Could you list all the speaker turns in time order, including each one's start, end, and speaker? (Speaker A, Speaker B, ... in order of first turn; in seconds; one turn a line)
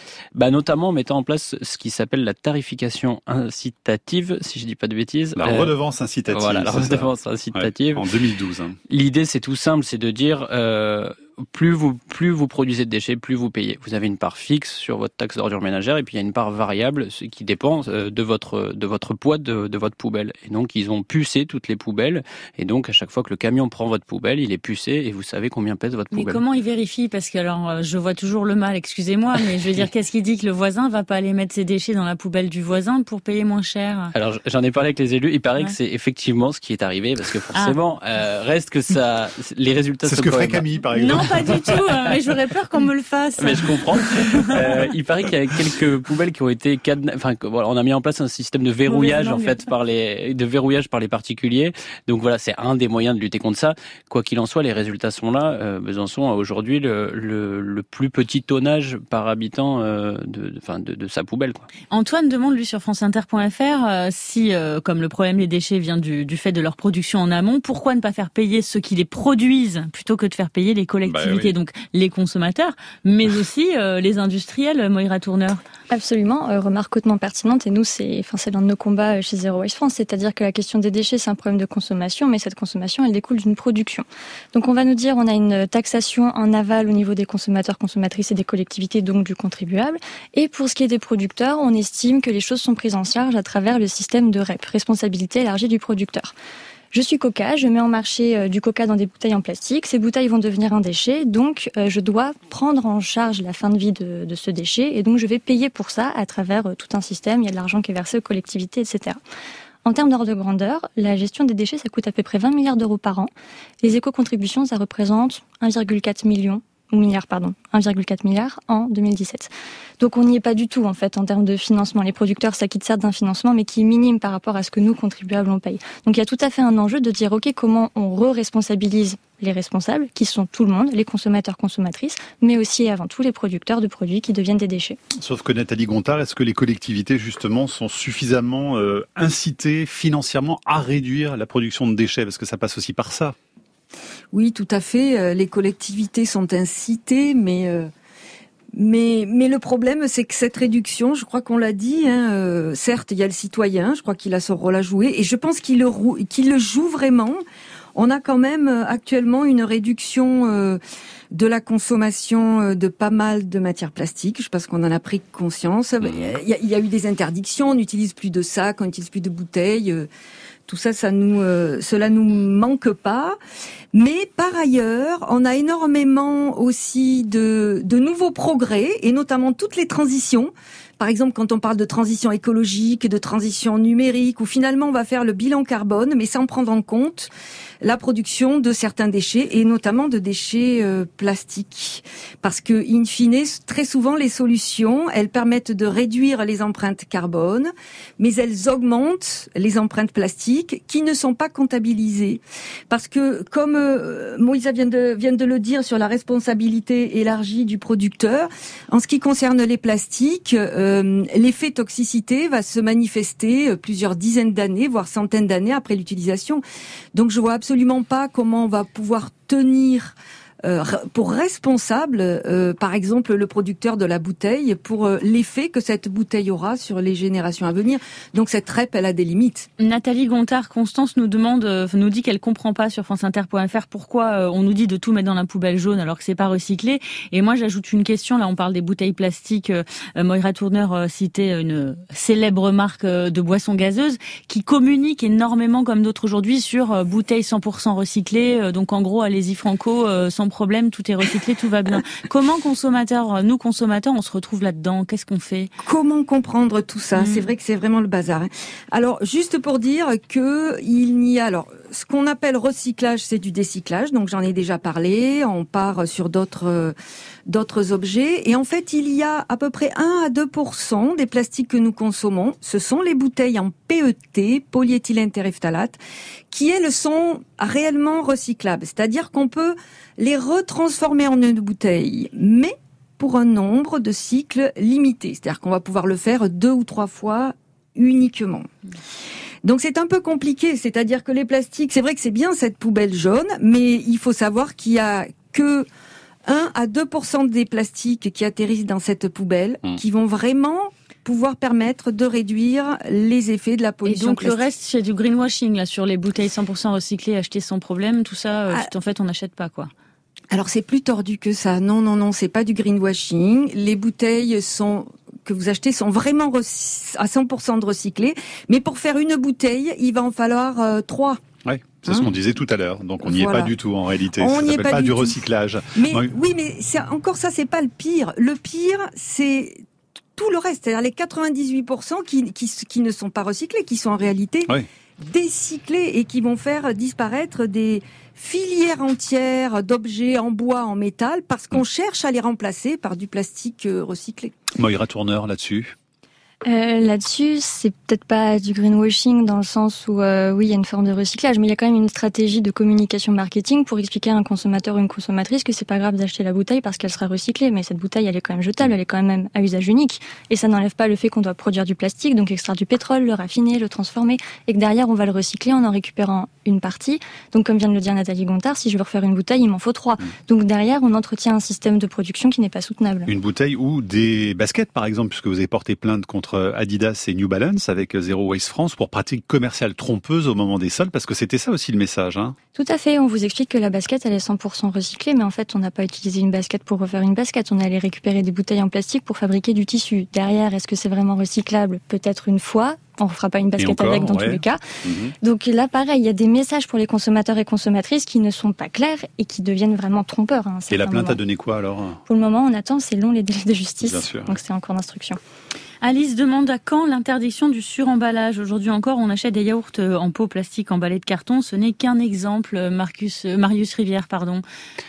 Speaker A: 0.3-5.7
Speaker B: 5.4-8.8
Speaker A: 6.3-8.1
Speaker A: 8.9-26.4
Speaker C: 26.1-34.1
Speaker A: 34.1-40.6
Speaker B: 40.0-41.9
Speaker C: 40.9-44.9
Speaker A: 43.4-61.7
Speaker C: 48.9-49.6
Speaker C: 61.9-75.6
Speaker B: 71.0-71.5
Speaker D: 75.9-96.3
Speaker D: 96.9-109.2
Speaker D: 109.8-113.3
Speaker D: 113.8-135.0
Speaker B: 135.2-143.3
Speaker E: 144.3-147.9
Speaker E: 148.7-157.4
Speaker E: 157.9-160.8
Speaker E: 161.3-170.1
Speaker E: 170.7-173.4
Speaker E: 173.9-187.3
Speaker E: 187.8-216.6
Speaker E: 217.1-229.7
Speaker C: 229.8-255.7
Speaker E: 255.8-266.9
Speaker C: 257.1-257.5
Speaker E: 267.5-276.0
Speaker E: 276.5-288.7
Speaker E: 289.6-295.9
Speaker E: 296.4-304.6
Speaker C: 304.0-309.9
Speaker E: 310.5-321.4
Speaker B: 321.6-326.3
Speaker E: 323.2-323.7
Speaker E: 324.4-325.4
Speaker E: 325.9-329.8
Speaker E: 330.4-344.5
Speaker B: 344.7-345.9
Speaker D: 346.6-373.3
Speaker B: 373.3-382.6
Speaker D: 382.7-394.8
Speaker B: 393.8-395.3
Speaker D: 395.4-401.4
Speaker B: 400.9-402.2
Speaker D: 402.3-405.4
Speaker B: 404.0-404.6
Speaker C: 406.0-414.6